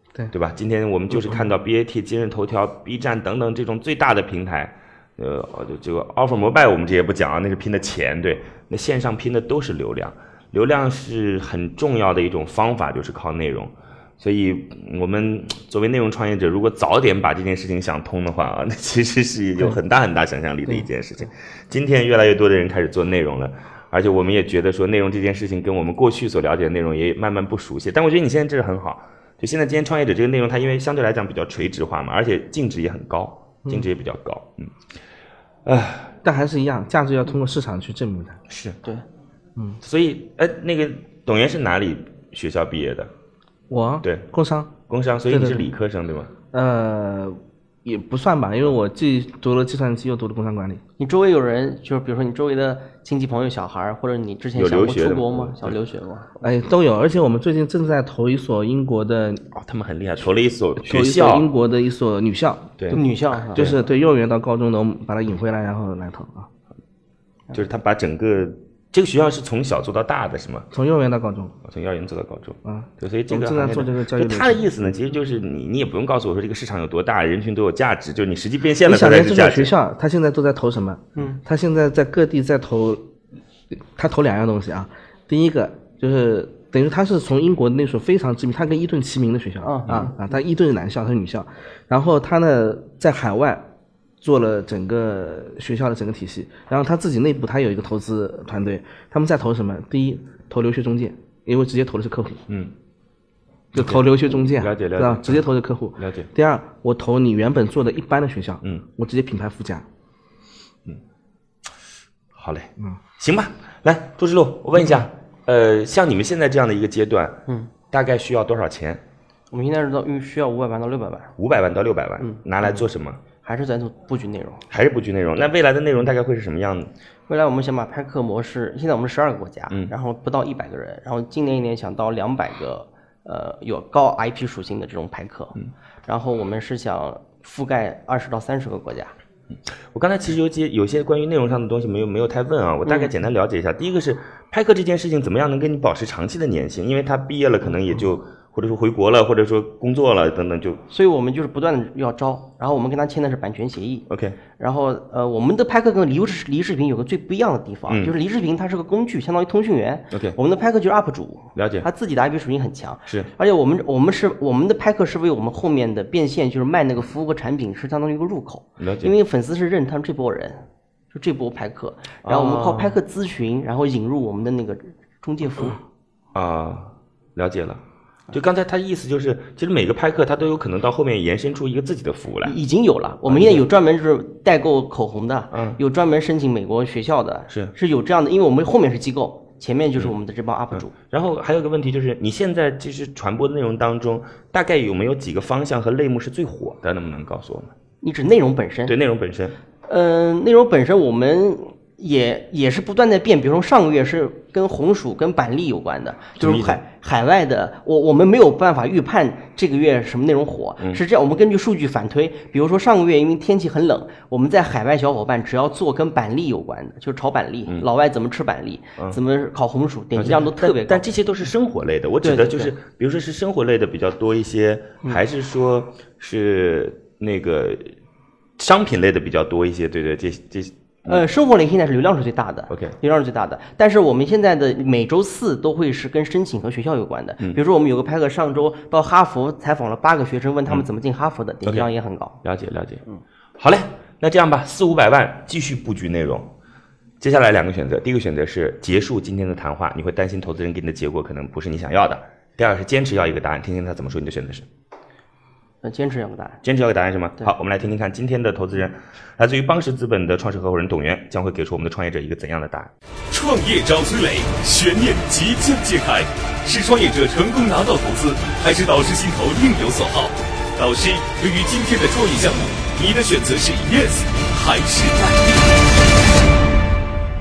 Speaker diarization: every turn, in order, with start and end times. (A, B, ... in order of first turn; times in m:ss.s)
0:00.3-0:34.7 A
0:35.6-0:36.2 A
0:36.2-0:38.4 B
0:38.5-0:38.8 A
0:39.8-0:43.1 A
0:43.7-0:44.8 B
0:44.9-0:46.3 A
0:45.3-0:45.7 B
0:46.5-0:50.8 B
0:51.0-0:56.3 C
0:54.5-0:55.8 A
0:56.4-0:59.4 B
0:59.5-1:01.5 A
1:00.8-1:03.0 B
1:02.9-1:03.7 C
1:03.5-1:06.5 B
1:07.5-1:10.7 A
1:10.7-1:11.6 B
1:11.6-1:19.7 A
1:12.6-1:14.6 B
1:18.8-1:23.1 B
1:23.9-1:33.6 B
1:29.6-1:30.3 C
1:34.2-1:42.4 B
1:42.5-1:42.7 A
1:43.7-1:49.8 B
1:43.7-1:46.3 A
1:52.3-1:59.0 A
1:59.5-2:01.3 C
2:01.4-2:03.2 A
2:03.4-2:04.6 C
2:04.7-2:06.9 A
2:07.3-2:19.1 C
2:19.9-2:30.8 A
2:30.9-2:34.0 C
2:34.1-2:34.4 A
2:34.6-2:55.8 C
2:40.1-2:40.4 A
2:41.5-2:41.8 A
2:48.8-2:49.1 A
2:52.2-2:53.0 A
2:56.3-3:02.6 A
3:02.4-3:10.9 C
3:03.2-3:03.6 A
3:05.5-3:05.8 A
3:07.5-3:07.7 A
3:10.7-3:17.7 A
3:18.0-3:18.9 C
3:18.9-3:19.6 A
3:19.9-3:41.1 C
3:26.4-3:26.8 A
3:40.2-3:47.9 A
3:42.2-3:42.7 C
3:48.6-3:51.2 A
3:51.1-4:02.4 C
3:52.7-3:53.0 A
4:01.6-4:01.9 A
4:02.4-4:03.0 A
4:03.6-4:06.5 A
4:07.2-4:14.6 A
4:15.8-4:16.6 C
4:16.6-4:22.9 A
4:23.3-4:35.6 D